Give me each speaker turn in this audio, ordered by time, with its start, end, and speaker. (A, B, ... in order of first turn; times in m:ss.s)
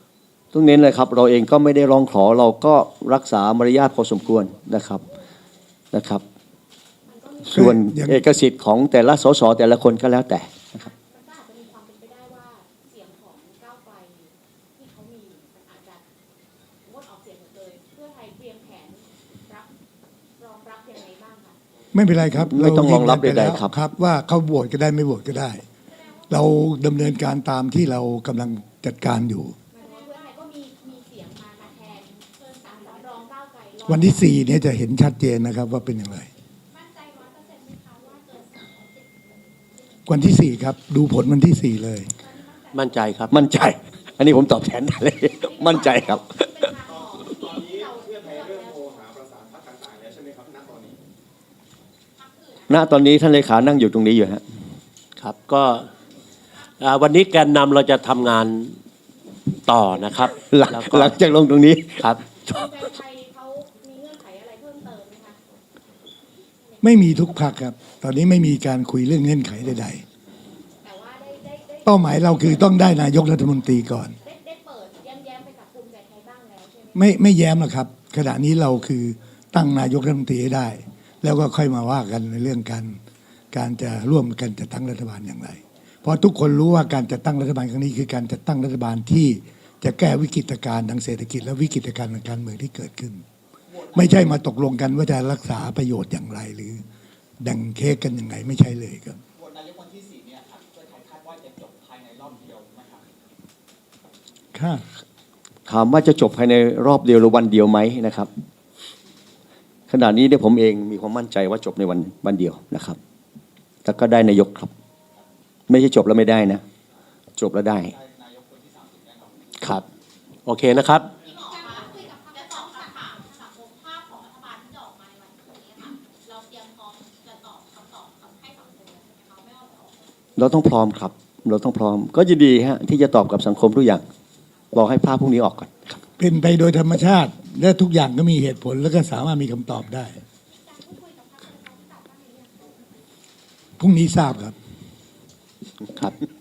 0:00.5-0:05.0 A
0:05.9-0:06.2 A
0:07.1-0:07.7 B
0:07.5-0:08.2 C
0:07.5-0:10.6 A
0:10.8-0:16.0 B
0:16.8-0:19.7 B
0:20.4-0:21.6 B
0:21.9-0:25.6 C
0:22.4-0:23.7 A
0:26.3-0:29.6 C
0:29.7-0:34.3 B
0:33.9-0:36.3 C
0:36.7-0:40.0 B
0:40.1-0:42.1 C
0:42.2-0:43.7 B
0:42.7-0:43.4 D
0:43.3-0:46.7 A
0:45.3-0:48.9 B
0:46.8-0:51.0 E
0:52.2-0:53.0 B
0:52.7-0:54.4 A
0:55.2-0:55.9 D
0:56.8-0:58.8 D
0:59.7-1:01.2 D
1:00.4-1:02.0 A
1:02.5-1:05.4 B
1:06.8-1:10.0 C
1:10.8-1:12.7 B
1:11.8-1:14.2 C
1:14.2-1:17.0 B
1:16.9-1:23.0 C
1:23.5-1:33.2 C
1:33.7-1:34.0 E
1:33.9-1:36.8 C
1:37.4-1:39.2 C
1:39.4-1:43.0 E
1:44.5-1:44.8 C
1:45.7-1:48.3 A
1:49.9-1:53.0 A
1:53.8-1:54.7 A
1:55.7-1:56.6 A
1:57.4-1:57.9 A
1:57.9-1:59.3 E
2:00.5-2:01.1 D
2:01.3-2:10.0 B
2:10.4-2:14.0 A
2:14.7-2:16.0 A
2:16.2-2:20.1 C
2:20.5-2:22.8 B
2:23.8-2:24.6 C